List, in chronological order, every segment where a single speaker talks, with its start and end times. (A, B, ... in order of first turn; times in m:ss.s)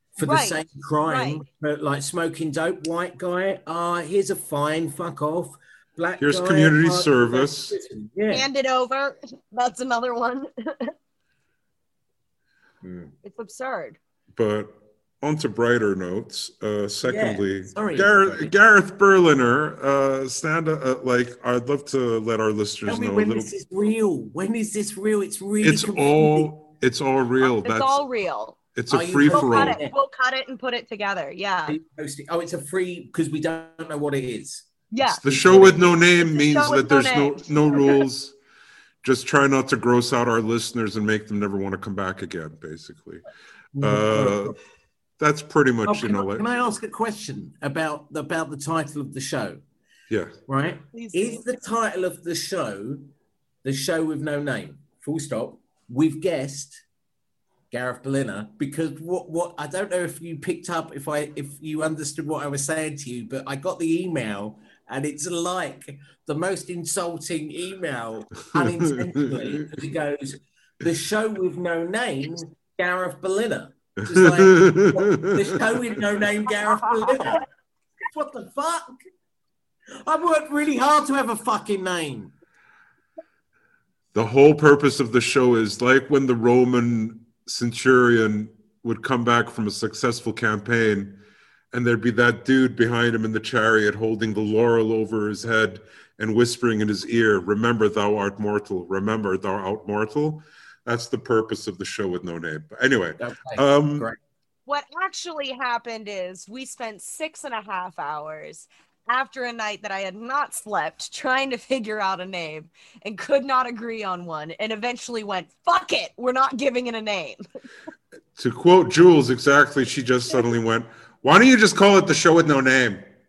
0:00.2-0:08.5 A
0:00.2-0:01.4 B
0:06.2-0:07.8 C
0:08.3-0:10.9 B
0:12.8-0:13.1 A
0:13.2-0:14.0 B
0:14.4-0:23.5 C
0:17.0-0:18.5 A
0:22.9-0:26.5 A
0:25.6-0:28.0 C
0:27.4-0:28.6 B
0:28.7-0:29.8 C
0:28.9-0:30.0 A
0:29.3-0:31.8 B
0:31.7-0:34.7 A
0:34.9-0:38.0 B
0:35.1-0:38.3 C
0:35.2-0:36.0 A
0:39.0-0:43.2 C
0:43.7-0:44.6 A
0:43.8-0:44.6 C
0:45.2-0:46.4 C
0:45.8-0:49.6 A
0:50.1-0:50.4 C
0:50.5-0:53.1 A
0:50.9-0:51.5 B
0:53.6-0:56.8 A
0:57.7-1:17.4 A
1:08.5-1:08.8 C
1:14.0-1:15.6 C
1:18.0-1:19.0 A
1:20.0-1:22.3 A
1:24.1-1:31.2 C
1:31.7-1:44.1 C
1:43.2-1:44.2 A
1:44.7-1:57.4 B
1:58.4-2:03.0 C